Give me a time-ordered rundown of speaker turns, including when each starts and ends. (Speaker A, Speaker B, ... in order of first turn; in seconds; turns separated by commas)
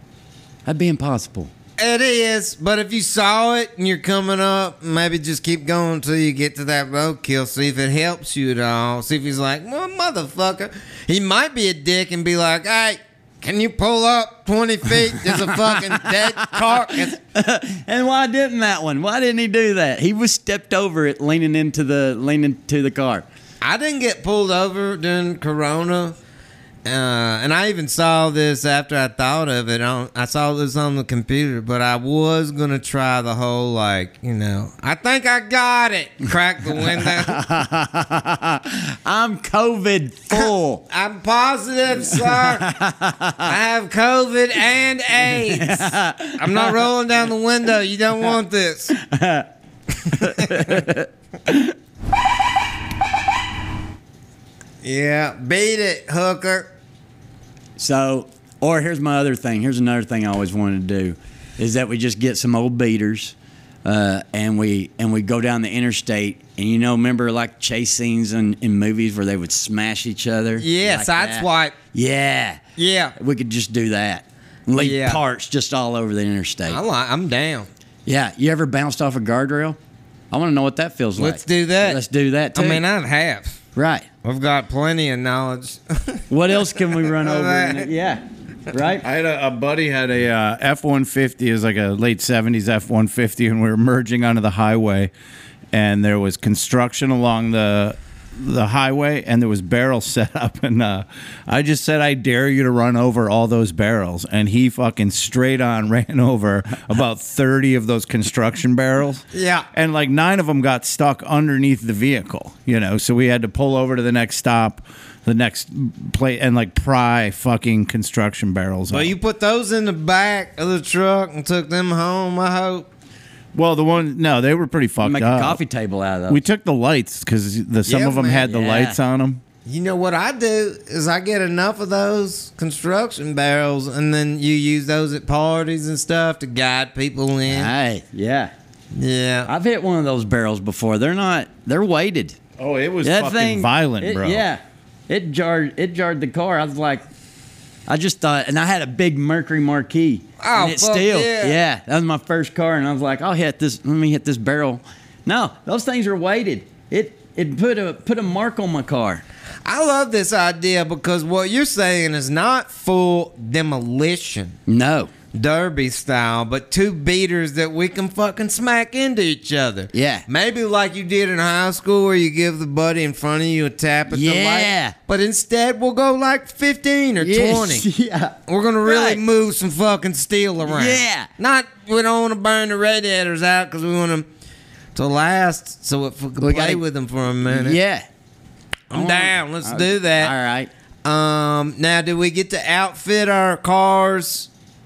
Speaker A: 0.7-1.5, Speaker B: 1.8-17.2, Speaker A: 15.3-23.3, Speaker B: 23.6-26.2, Speaker B: 26.9-37.4, Speaker A: 36.8-40.8, Speaker B: 40.3-42.7, Speaker A: 42.1-43.5, Speaker B: 43.5-49.0, Speaker A: 45.2-46.9, Speaker A: 49.0-49.5, Speaker B: 50.0-50.9, Speaker A: 50.1-51.7, Speaker B: 54.8-56.7, Speaker A: 57.8-63.3, Speaker A: 63.9-72.6, Speaker B: 70.6-71.8, Speaker B: 72.8-73.2, Speaker A: 73.2-76.8, Speaker B: 74.8-75.2, Speaker B: 76.7-77.7, Speaker A: 78.1-79.8, Speaker A: 80.3-82.8, Speaker B: 81.2-82.0, Speaker B: 82.5-83.6, Speaker A: 83.8-84.1, Speaker B: 84.2-87.9, Speaker A: 86.3-89.0, Speaker C: 89.0-95.1, Speaker C: 95.7-119.2, Speaker B: 109.3-109.7, Speaker B: 118.9-122.9, Speaker C: 123.5-125.6, Speaker A: 125.0-126.4, Speaker C: 126.3-129.4, Speaker B: 127.9-128.5, Speaker A: 128.5-129.0, Speaker B: 129.7-137.7, Speaker A: 137.5-138.5, Speaker B: 138.9-139.5, Speaker A: 139.5-142.4, Speaker C: 142.6-144.4, Speaker A: 143.0-147.0, Speaker A: 147.9-159.2, Speaker B: 150.4-151.6, Speaker B: 159.7-164.6, Speaker A: 164.7-165.1, Speaker B: 165.3-177.9, Speaker A: 169.9-170.3, Speaker A: 174.1-174.9, Speaker A: 177.2-179.2, Speaker B: 178.5-184.3, Speaker A: 180.7-181.3, Speaker B: 184.9-187.8, Speaker A: 186.4-186.8, Speaker A: 187.4-188.1, Speaker B: 188.9-190.3, Speaker A: 188.9-190.7, Speaker B: 191.1-194.5